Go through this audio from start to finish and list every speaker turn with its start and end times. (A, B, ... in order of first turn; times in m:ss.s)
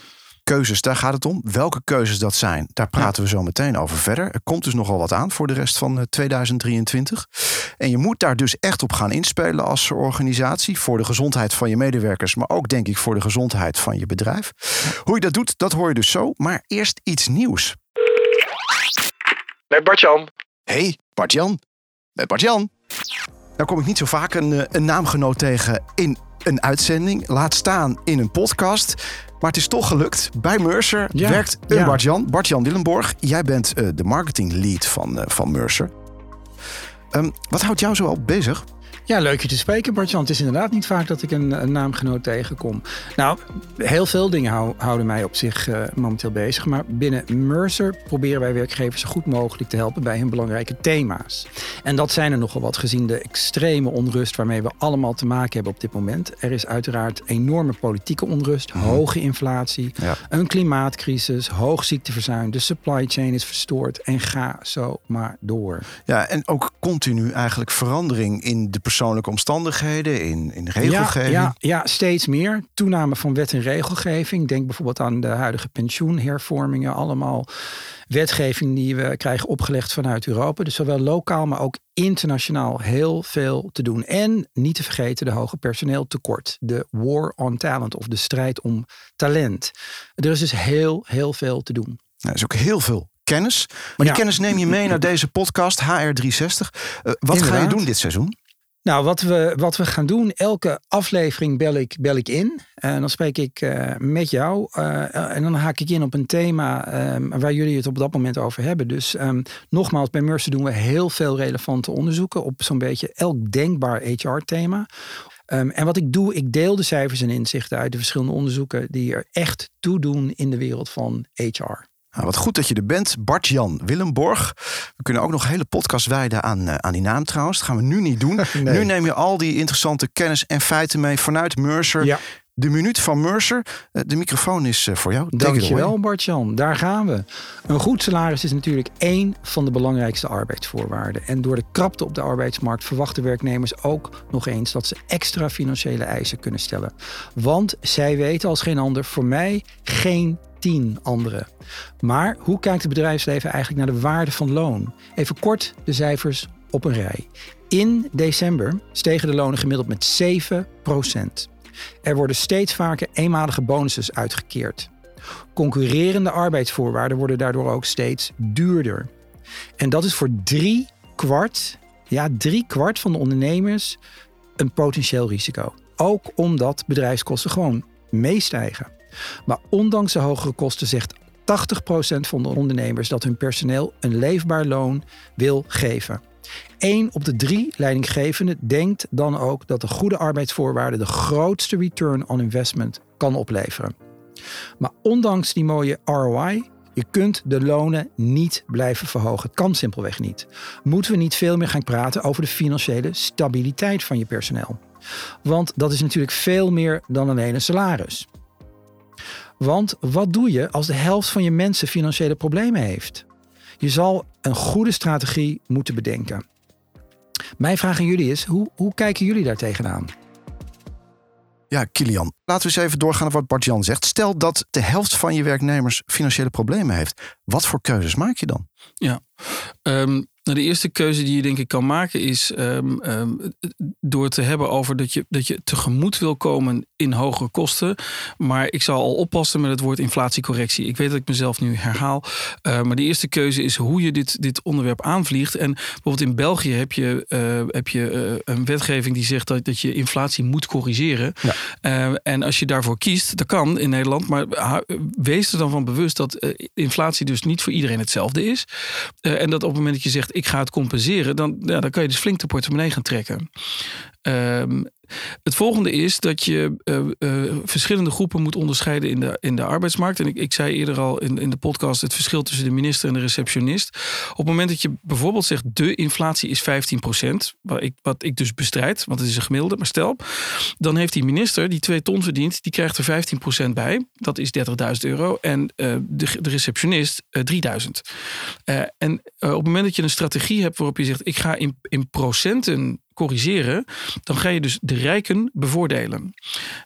0:00.5-0:17.8 A
0:19.9-0:20.2 B
0:20.7-0:21.6 A
0:22.2-0:22.7 A
0:23.6-0:35.9 A
0:31.1-0:32.0 C
0:37.1-0:38.6 A
0:39.1-1:05.9 C
1:06.1-1:11.5 A
1:10.8-1:17.5 C
1:18.1-1:32.0 C
1:32.2-1:38.3 A
1:37.3-1:37.8 C
1:38.8-1:54.9 C
1:55.5-2:01.8 C
2:02.1-2:15.9 A
2:08.4-2:08.9 C
2:15.3-2:31.5 C
2:32.0-2:41.5 C
2:42.0-2:44.9 C
2:45.5-2:49.1 C
2:49.8-2:54.0 C
2:54.6-2:58.9 C
2:59.4-3:06.2 C
3:06.8-3:13.9 C
3:14.8-3:24.8 C
3:25.4-3:28.3 C
3:29.6-3:33.2 C
3:33.8-3:36.4 C
3:37.6-3:40.1 C
3:41.7-3:48.6 A
3:49.0-4:23.5 B
4:24.2-4:24.9 B
4:25.4-4:56.3 B